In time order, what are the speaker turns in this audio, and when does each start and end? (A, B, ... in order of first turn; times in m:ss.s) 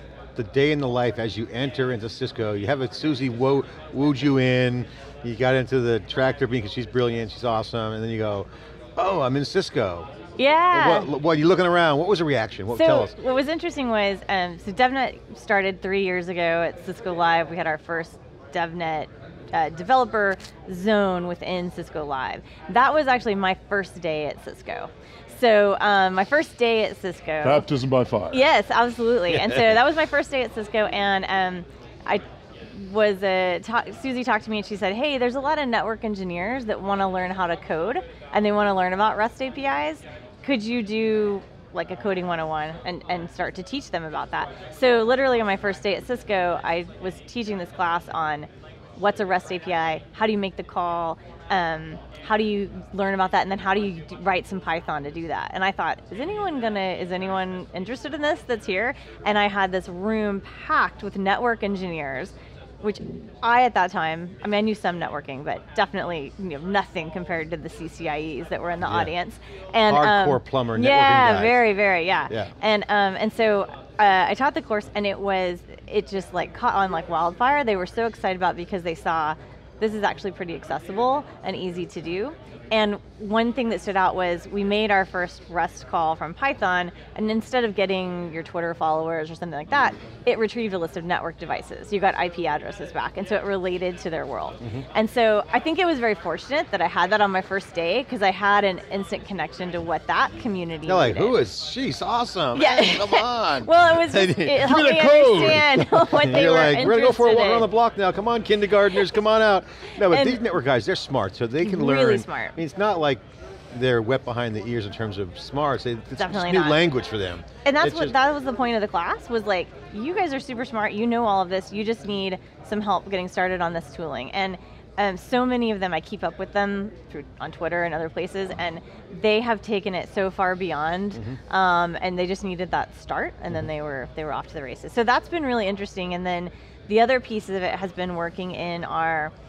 0:00.4-0:10.1 A
0:10.4-0:11.1 B
0:10.7-0:13.2 A
0:12.7-0:27.7 B
0:27.4-0:28.4 C
0:28.3-1:41.4 B
1:08.8-1:09.1 A
1:09.9-1:11.6 A
1:34.6-1:34.9 A
1:40.9-1:58.1 A
1:42.6-1:47.7 B
1:44.7-1:45.7 C
1:50.1-1:50.4 B
1:51.6-1:52.6 B
1:56.2-1:56.8 B
1:57.6-2:19.3 B